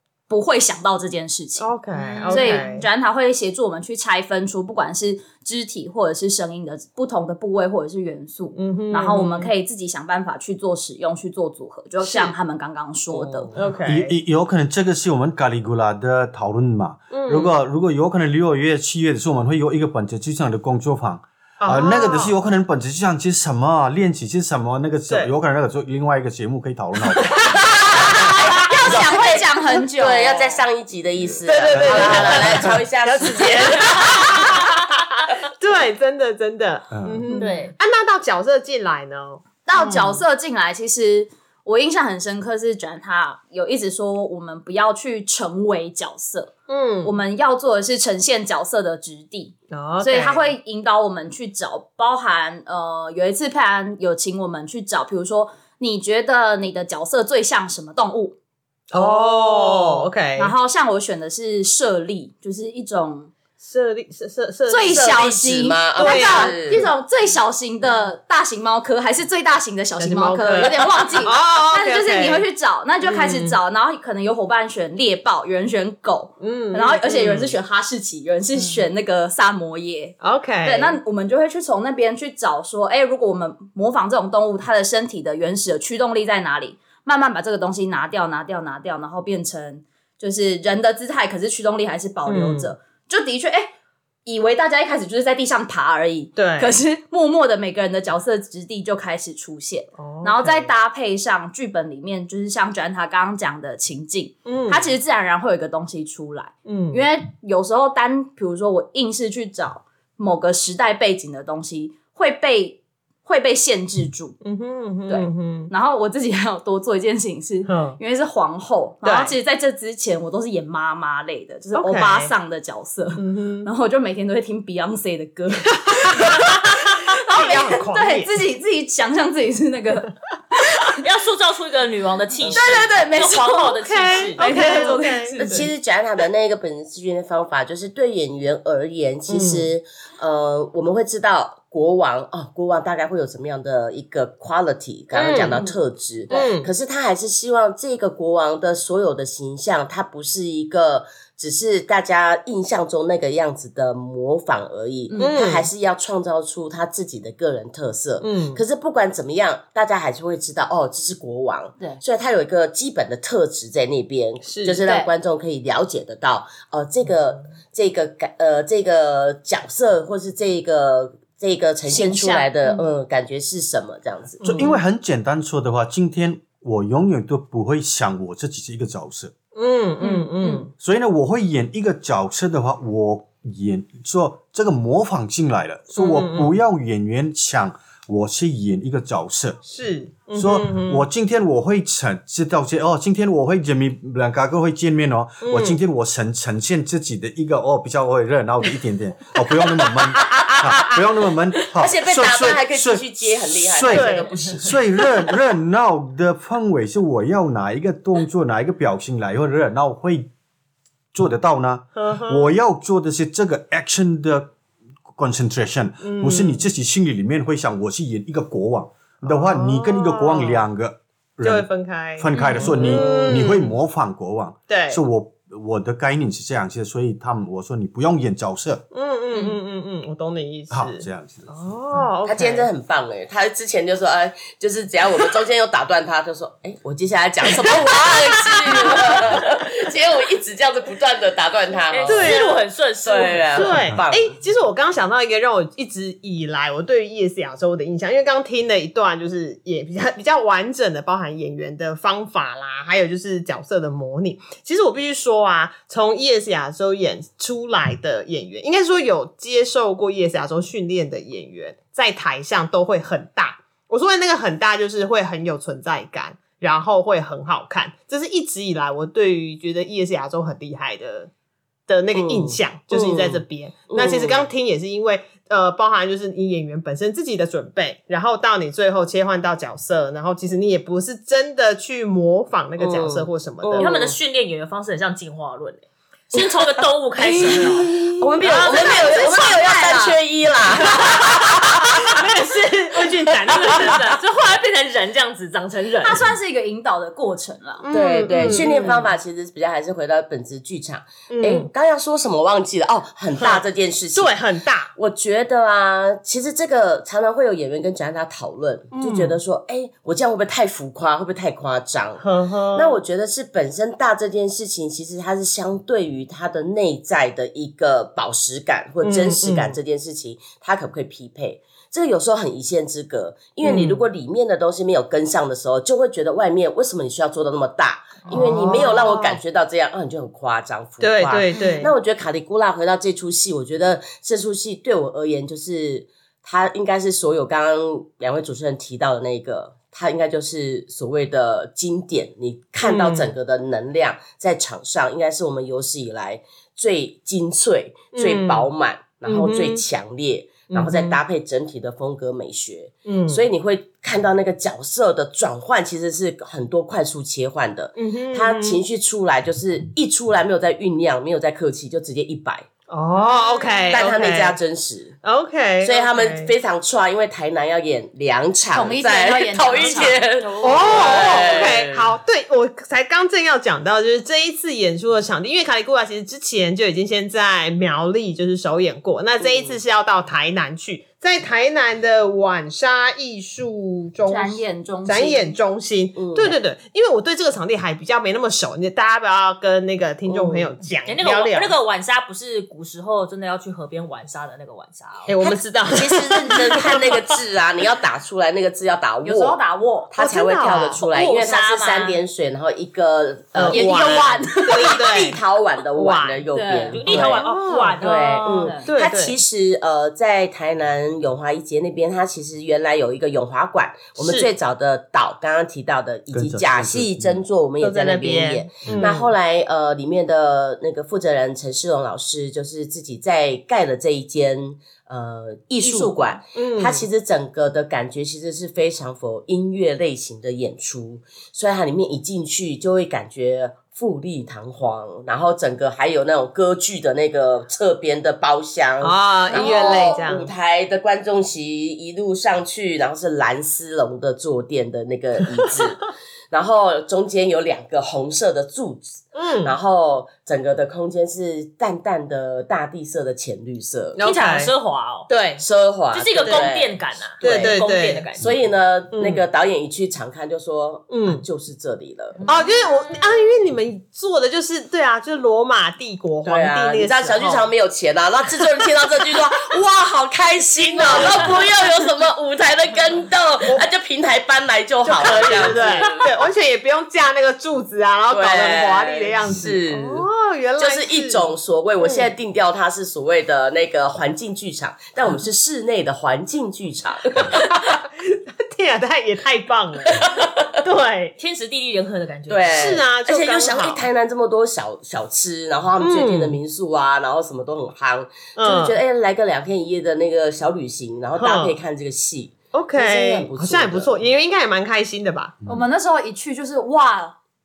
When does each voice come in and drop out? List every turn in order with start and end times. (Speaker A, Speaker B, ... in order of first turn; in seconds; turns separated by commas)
Speaker A: 0.3-13.5, Speaker B: 1.6-2.9, Speaker B: 8.6-9.5, Speaker B: 12.0-12.3, Speaker C: 13.1-13.7, Speaker B: 13.5-14.1, Speaker D: 13.8-27.4, Speaker B: 17.1-17.5, Speaker B: 21.6-22.3, Speaker B: 27.1-28.6, Speaker C: 28.0-34.5, Speaker A: 28.6-30.6, Speaker B: 31.4-40.2, Speaker D: 31.6-32.8, Speaker D: 36.9-37.3, Speaker A: 37.3-37.7, Speaker E: 37.4-37.7, Speaker A: 39.6-58.4, Speaker B: 46.7-47.1, Speaker B: 49.7-50.5, Speaker B: 58.9-60.5, Speaker A: 58.9-63.3, Speaker B: 63.6-65.2, Speaker A: 64.7-93.7, Speaker C: 64.9-66.9, Speaker B: 66.0-66.9, Speaker B: 70.0-72.5, Speaker B: 73.0-73.6, Speaker B: 76.4-77.6, Speaker B: 80.2-81.0, Speaker B: 92.2-92.7, Speaker A: 94.2-114.4, Speaker B: 96.3-96.8, Speaker B: 100.0-100.7, Speaker B: 104.5-104.9, Speaker B: 106.7-107.0, Speaker B: 114.4-115.7, Speaker A: 115.1-131.0, Speaker B: 117.7-118.0, Speaker B: 119.0-119.3, Speaker B: 121.8-122.3, Speaker B: 123.2-123.7, Speaker B: 125.8-128.3, Speaker E: 131.0-135.0, Speaker C: 132.5-133.0, Speaker A: 132.5-135.7, Speaker B: 133.9-135.7, Speaker C: 135.4-174.4, Speaker B: 139.3-139.7, Speaker B: 145.1-145.6, Speaker B: 146.3-146.7, Speaker A: 155.1-155.4, Speaker B: 155.2-155.7, Speaker B: 158.2-158.6, Speaker B: 164.4-164.8, Speaker A: 164.8-165.1, Speaker A: 171.9-172.8, Speaker B: 174.4-174.8, Speaker D: 174.4-179.3, Speaker B: 179.5-180.7, Speaker A: 180.0-180.7, Speaker D: 180.8-189.6, Speaker B: 186.0-186.5, Speaker B: 189.7-191.1, Speaker D: 190.3-210.3, Speaker B: 195.4-195.8, Speaker B: 200.4-200.9, Speaker C: 201.8-204.8, Speaker B: 203.9-204.3, Speaker D: 211.1-214.5, Speaker B: 211.9-212.5, Speaker D: 215.1-228.8, Speaker B: 216.0-216.7, Speaker B: 219.3-220.7, Speaker B: 221.4-223.7, Speaker C: 222.8-223.5, Speaker B: 224.7-225.0, Speaker B: 228.9-232.7, Speaker D: 230.7-231.5, Speaker C: 232.3-242.4, Speaker B: 237.7-239.1, Speaker E: 241.9-243.8, Speaker B: 242.1-242.7, Speaker C: 243.0-244.3, Speaker B: 243.5-271.3, Speaker B: 271.9-283.9, Speaker C: 272.1-274.4, Speaker C: 282.8-284.2, Speaker E: 283.8-289.5, Speaker C: 287.2-292.2, Speaker B: 287.3-288.3, Speaker A: 288.4-290.2, Speaker E: 290.8-291.2, Speaker B: 292.0-294.1, Speaker E: 292.1-296.4, Speaker C: 293.3-294.0, Speaker A: 296.0-298.9, Speaker B: 297.8-299.1, Speaker C: 297.9-304.4, Speaker B: 301.3-301.7, Speaker B: 303.4-303.6, Speaker B: 304.1-304.9, Speaker C: 304.9-362.7, Speaker B: 308.9-309.4, Speaker B: 312.2-313.0, Speaker B: 319.0-319.8, Speaker B: 323.6-324.0, Speaker B: 328.2-329.4, Speaker B: 331.0-331.9, Speaker B: 342.8-343.3, Speaker B: 348.1-348.7, Speaker B: 349.2-349.8, Speaker B: 350.7-351.2, Speaker B: 353.1-353.4, Speaker B: 358.0-358.8, Speaker B: 362.9-364.6, Speaker A: 363.4-363.9, Speaker C: 363.9-365.2, Speaker B: 365.2-366.5, Speaker C: 365.8-372.1, Speaker A: 368.7-371.6, Speaker B: 370.6-391.8, Speaker C: 379.4-379.8, Speaker A: 384.2-385.6, Speaker C: 386.2-386.6, Speaker C: 390.3-390.7, Speaker E: 391.1-395.4, Speaker B: 395.2-397.0, Speaker C: 395.9-399.6, Speaker A: 399.2-400.1, Speaker C: 400.1-407.4, Speaker B: 400.2-401.0, Speaker E: 400.9-402.2, Speaker B: 403.6-405.4, Speaker A: 403.7-404.9, Speaker B: 405.9-406.4, Speaker A: 406.5-407.2, Speaker E: 406.9-408.8, Speaker B: 407.2-408.0, Speaker C: 408.0-454.2, Speaker A: 408.1-408.9, Speaker B: 408.8-409.4, Speaker B: 414.2-414.5, Speaker D: 416.3-417.4, Speaker B: 417.8-419.3, Speaker D: 418.9-419.1, Speaker B: 425.9-427.1, Speaker B: 439.0-440.5, Speaker B: 449.4-449.7, Speaker B: 454.2-454.7, Speaker E: 454.2-455.3, Speaker B: 455.3-455.6, Speaker C: 455.6-457.8, Speaker E: 456.1-458.5, Speaker B: 457.4-458.4, Speaker C: 458.4-462.4, Speaker B: 459.1-459.4, Speaker B: 461.1-461.4, Speaker B: 462.4-467.7, Speaker C: 466.4-476.4, Speaker B: 470.7-471.6, Speaker B: 475.1-482.3, Speaker C: 478.3-487.8, Speaker B: 487.5-490.3, Speaker C: 490.1-490.7, Speaker B: 490.8-491.4, Speaker E: 491.4-492.9, Speaker C: 492.5-504.2, Speaker B: 492.7-494.0, Speaker B: 496.0-496.6, Speaker B: 498.6-499.0, Speaker B: 501.4-501.8, Speaker B: 502.7-505.6, Speaker A: 505.7-507.4